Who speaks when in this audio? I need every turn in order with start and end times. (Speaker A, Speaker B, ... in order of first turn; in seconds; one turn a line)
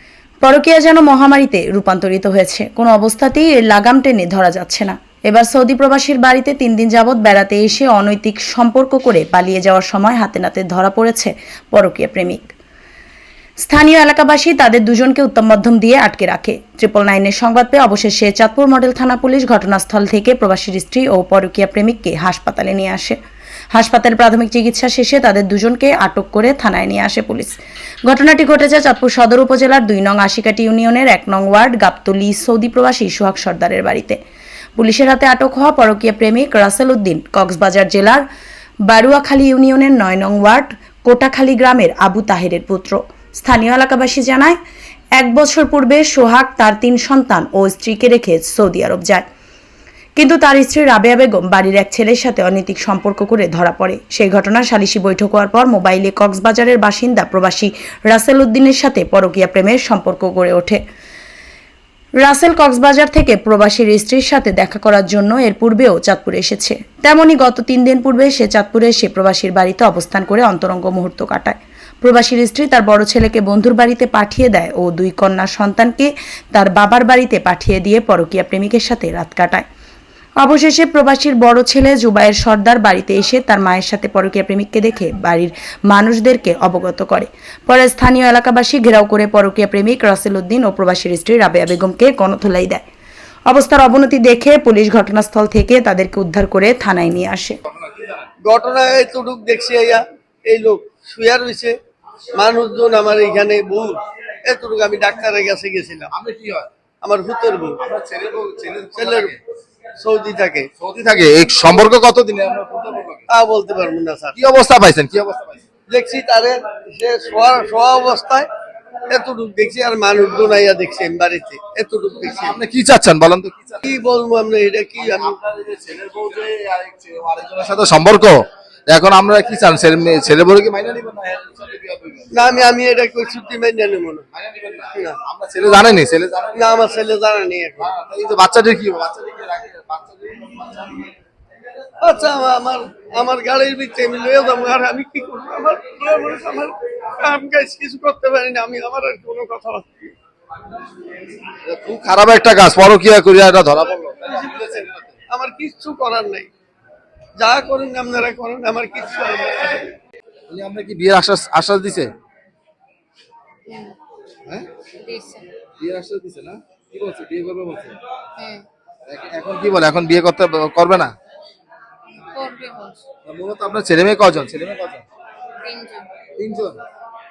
Speaker A: 0.4-12.5
Speaker A: 13.6-23.2
Speaker A: 23.7-34.2
Speaker A: 34.8-38.2
Speaker A: 38.9-44.6
Speaker A: 45.2-49.2
Speaker A: 50.2-60.8
Speaker A: 62.2-79.6
Speaker A: 80.4-92.8
Speaker A: 93.5-97.6
Speaker B: 97.7-98.3
Speaker C: 98.4-101.7
Speaker C: 102.3-106.1
Speaker B: 106.1-106.7
Speaker C: 107.0-107.8
Speaker B: 107.8-109.4
Speaker C: 109.0-109.3
Speaker C: 110.0-110.7
Speaker B: 110.8-113.2
Speaker C: 113.3-114.3
Speaker B: 114.3-115.6
Speaker C: 115.9-118.5
Speaker C: 119.1-122.6
Speaker B: 122.3-123.8
Speaker C: 123.8-125.4
Speaker B: 125.0-132.4
Speaker C: 132.3-134.2
Speaker B: 134.3-136.8
Speaker C: 136.5-137.9
Speaker B: 137.8-141.1
Speaker C: 142.0-150.1
Speaker B: 151.7-155.0
Speaker C: 154.2-156.5
Speaker C: 157.4-159.9
Speaker B: 160.5-162.1
Speaker D: 163.7-163.9
Speaker D: 165.0-165.5
Speaker B: 165.8-168.0
Speaker D: 168.4-168.6
Speaker B: 169.1-171.1
Speaker D: 172.2-173.0
Speaker B: 173.2-175.0
Speaker D: 175.6-176.1
Speaker B: 176.4-176.8